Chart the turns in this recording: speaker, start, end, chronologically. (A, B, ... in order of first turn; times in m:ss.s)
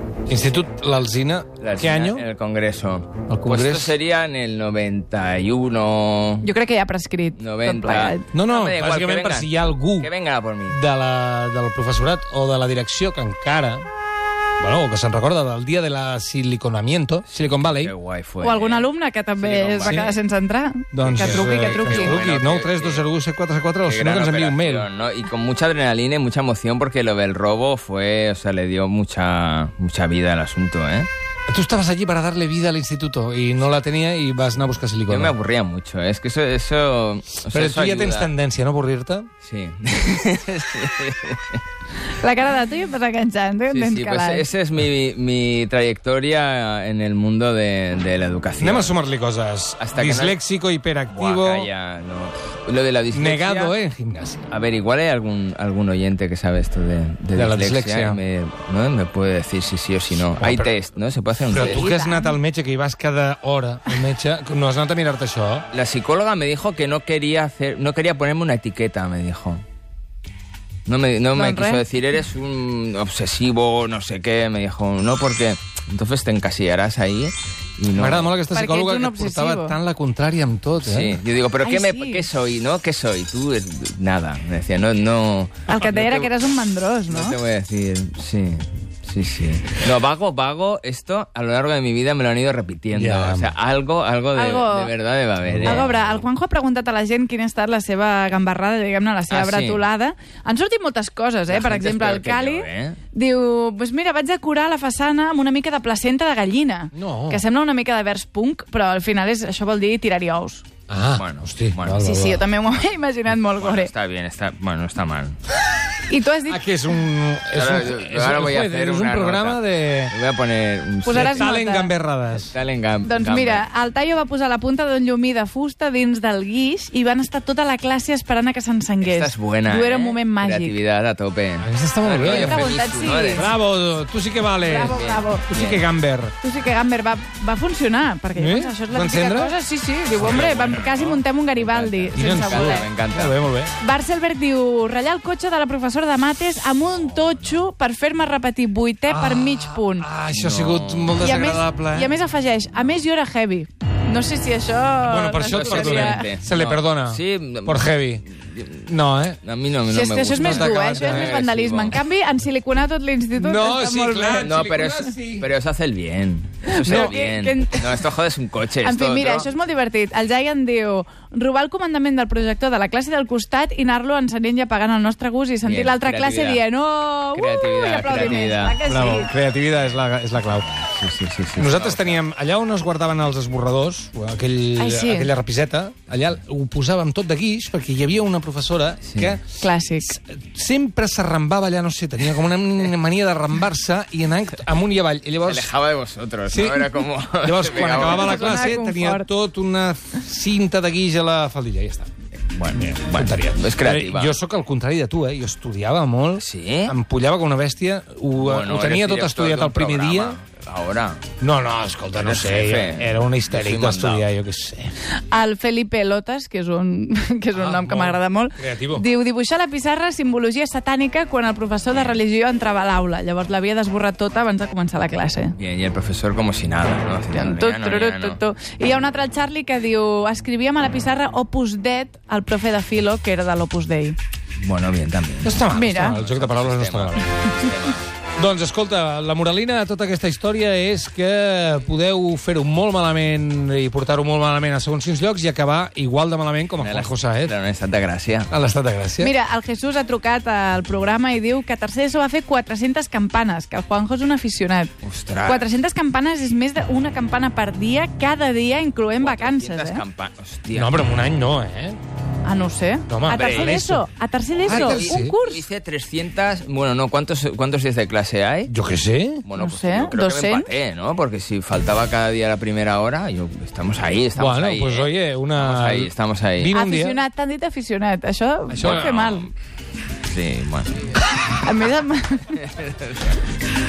0:00.3-0:02.2 A
0:01.6-0:06.5 B
0:03.3-0:03.9 A
0:06.4-0:08.3 C
0:07.4-0:10.8 B
0:08.3-0:10.1 A
0:10.7-0:13.9 A
0:14.6-0:17.9 A
0:17.3-0:20.2 B
0:18.4-0:22.2 C
0:19.8-0:20.1 A
0:20.9-0:24.9 A
0:21.0-0:23.0 B
0:23.8-0:31.1 B
0:31.5-0:35.3 A
0:35.1-0:38.3 B
0:37.5-0:39.3 A
0:39.4-0:41.6 B
0:42.1-0:44.4 C
0:43.7-0:48.9 B
0:48.6-0:51.7 A
0:49.8-0:50.4 B
0:51.1-0:53.7 B
0:53.1-0:54.5 A
0:54.5-1:01.9 B
0:57.3-0:58.2 A
1:00.4-1:00.8 A
1:01.5-1:05.6 A
1:01.6-1:02.4 C
1:05.7-1:09.6 B
1:10.9-1:18.3 B
1:11.3-1:11.8 C
1:18.0-1:21.2 A
1:18.5-1:19.8 C
1:20.8-1:26.3 B
1:21.6-1:22.2 C
1:25.7-1:27.4 C
1:27.1-1:36.2 B
1:32.9-1:33.5 A
1:34.3-1:34.9 C
1:35.4-1:35.8 A
1:35.6-1:50.6 C
1:39.3-1:39.8 B
1:41.5-1:43.0 B
1:46.9-1:47.4 A
1:50.9-1:52.4 A
1:51.2-1:52.0 B
1:52.0-1:53.9 C
1:53.6-1:55.4 B
1:56.1-1:56.6 C
1:56.5-2:00.1 A
1:57.5-2:01.5 B
2:01.0-2:01.9 C
2:01.1-2:02.5 A
2:02.5-2:03.6 B
2:03.0-2:10.8 C
2:09.0-2:13.5 B
2:11.6-2:12.8 A
2:12.2-2:13.5 C
2:13.3-2:16.3 A
2:14.6-2:15.5 C
2:14.7-2:15.8 B
2:16.4-2:22.8 C
2:18.3-2:19.5 A
2:20.2-2:20.6 A
2:20.2-2:23.4 B
2:22.2-2:23.7 A
2:23.8-2:30.1 C
2:26.9-2:27.6 B
2:29.1-2:32.1 A
2:30.3-2:31.3 B
2:31.2-2:36.3 C
2:35.0-2:38.2 A
2:35.4-2:38.9 B
2:38.8-2:39.4 A
2:39.4-2:42.0 B
2:39.9-2:44.6 C
2:40.3-2:41.4 A
2:43.4-2:45.5 A
2:44.4-2:49.5 B
2:46.7-2:48.0 C
2:46.8-2:47.1 A
2:48.8-2:59.3 C
2:55.6-2:56.6 B
2:57.3-3:02.2 B
2:58.1-3:00.7 A
3:01.5-3:15.7 A
3:04.8-3:05.3 C
3:09.0-3:09.4 B
3:09.6-3:10.2 C
3:15.4-3:18.7 B
3:16.5-3:22.1 A
3:17.9-3:19.3 C
3:22.5-3:24.3 B
3:22.7-3:30.4 A
3:26.4-3:26.9 B
3:28.4-3:31.2 B
3:31.4-3:34.9 A
3:32.1-3:34.3 B
3:35.3-3:45.6 C
3:37.5-3:39.0 A
3:41.9-3:42.2 B
3:45.6-3:48.4 B
3:47.3-3:54.2 C
3:54.6-3:58.1 B
3:55.4-3:57.3 A
3:55.7-3:56.2 C
3:58.4-4:07.5 A
4:06.8-4:08.5 B
4:08.5-4:09.3 A
4:09.2-4:14.9 C
4:15.0-4:15.7 B
4:15.4-4:20.0 C
4:19.2-4:21.0 B
4:20.7-4:22.0 A
4:22.4-4:25.6 C
4:23.1-4:24.0 A
4:23.3-4:23.8 B
4:24.6-4:25.4 A
4:24.6-4:28.7 B
4:28.7-4:29.4 A
4:29.4-4:36.8 B
4:29.6-4:30.7 C
4:34.4-4:37.2 A
4:36.7-4:39.5 C
4:38.7-4:39.3 A
4:38.8-4:39.5 B
4:40.3-4:41.0 B
4:41.4-4:42.6 C
4:42.6-4:43.4 B